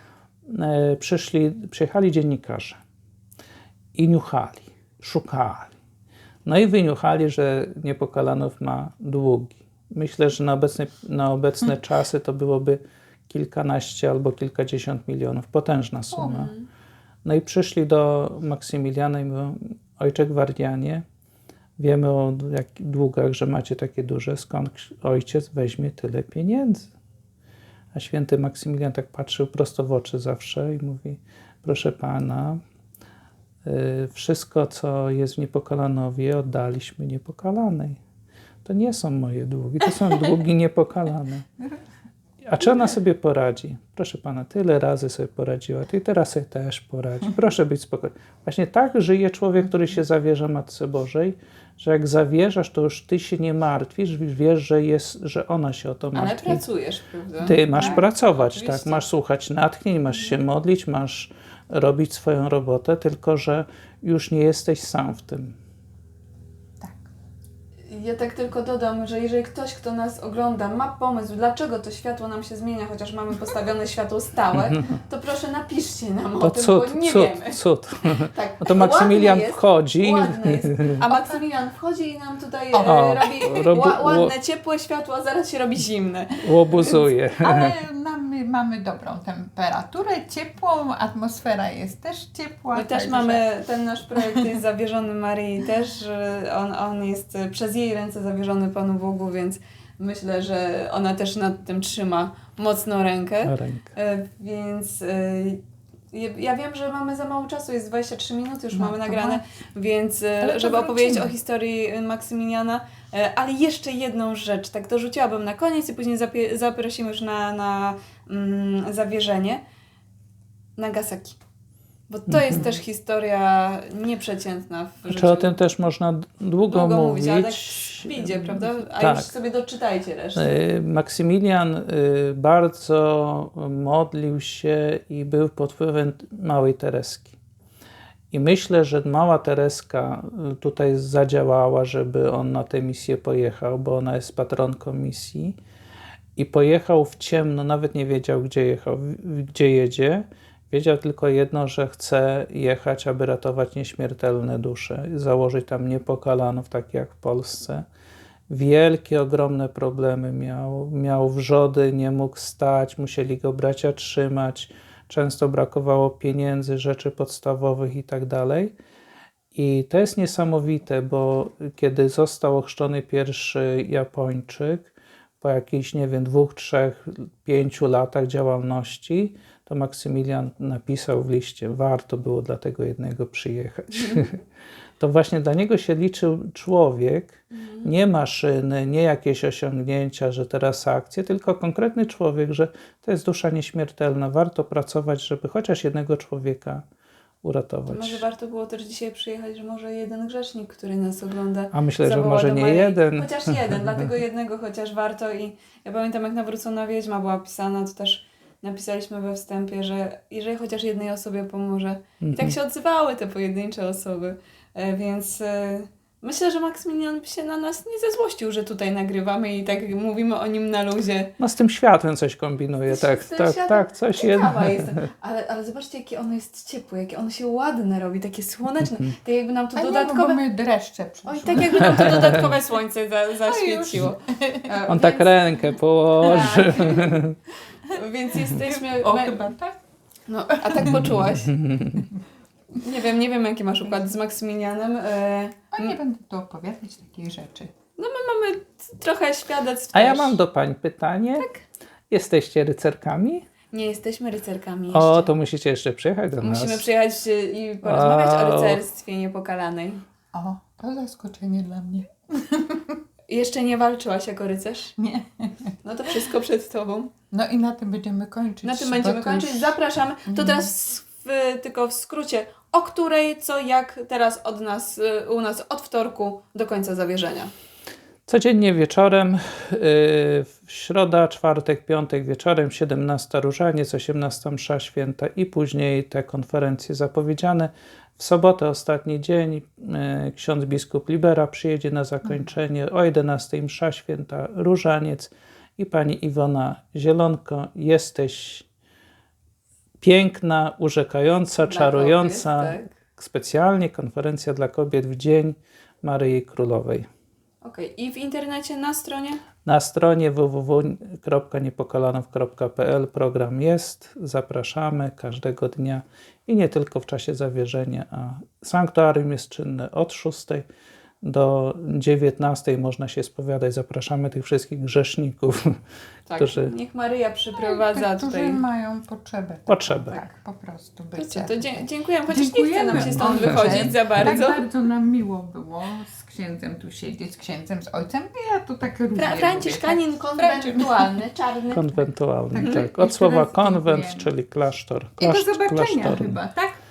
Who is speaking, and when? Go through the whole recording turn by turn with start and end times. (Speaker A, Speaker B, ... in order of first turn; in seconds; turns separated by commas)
Speaker A: 0.5-2.8, Speaker A: 3.9-5.7, Speaker A: 6.4-16.5, Speaker B: 16.2-16.6, Speaker A: 17.2-21.0, Speaker A: 21.8-26.9, Speaker A: 27.9-32.6, Speaker A: 33.6-38.0, Speaker A: 38.6-41.4, Speaker A: 42.4-56.6, Speaker B: 56.1-59.0, Speaker C: 57.4-58.0, Speaker A: 57.4-65.5, Speaker C: 66.8-67.1, Speaker B: 67.9-77.6, Speaker A: 76.4-81.0, Speaker B: 78.2-87.1, Speaker C: 81.0-81.4, Speaker C: 82.7-83.7, Speaker A: 82.8-84.3, Speaker A: 86.4-87.7, Speaker C: 87.4-93.4, Speaker B: 92.7-119.6, Speaker A: 103.4-103.9, Speaker C: 108.7-109.4, Speaker C: 110.4-111.3, Speaker B: 120.8-121.4, Speaker B: 122.1-125.6, Speaker A: 122.3-122.7, Speaker A: 125.0-129.3, Speaker B: 126.7-130.5, Speaker A: 130.3-137.3, Speaker A: 138.3-145.6, Speaker A: 146.3-157.8, Speaker A: 158.5-168.7, Speaker A: 169.5-184.4, Speaker A: 185.0-196.8, Speaker B: 187.5-187.9, Speaker A: 197.4-198.2, Speaker B: 197.9-221.3, Speaker A: 201.7-204.1, Speaker A: 212.2-212.5, Speaker A: 221.4-225.0, Speaker B: 222.9-230.4, Speaker C: 229.7-232.5, Speaker B: 231.2-235.6, Speaker A: 231.8-232.5, Speaker C: 233.4-234.8, Speaker A: 234.9-237.4, Speaker B: 236.1-237.2, Speaker B: 237.9-239.4, Speaker C: 237.9-239.8, Speaker B: 240.3-241.5, Speaker A: 241.4-242.1, Speaker B: 242.8-245.9, Speaker C: 245.7-247.7, Speaker B: 248.0-250.4, Speaker A: 249.9-251.5, Speaker A: 252.1-253.5, Speaker B: 253.7-255.3, Speaker A: 254.9-256.8, Speaker B: 256.4-260.0, Speaker A: 257.8-258.8, Speaker C: 260.3-263.0, Speaker B: 263.3-264.9, Speaker C: 265.0-265.7, Speaker B: 265.8-267.1, Speaker C: 267.3-269.8, Speaker B: 268.6-277.5, Speaker C: 270.3-270.7, Speaker A: 278.3-298.6, Speaker A: 300.0-307.1, Speaker B: 301.6-302.9, Speaker B: 307.6-309.4, Speaker A: 309.6-320.6, Speaker A: 321.2-325.8, Speaker B: 326.3-328.6, Speaker A: 326.4-326.7, Speaker C: 327.5-341.2, Speaker A: 329.7-330.2, Speaker B: 331.2-334.6, Speaker A: 332.9-334.4, Speaker B: 339.1-341.9, Speaker A: 341.7-346.4, Speaker C: 342.5-344.3, Speaker B: 342.6-342.9, Speaker C: 345.2-346.8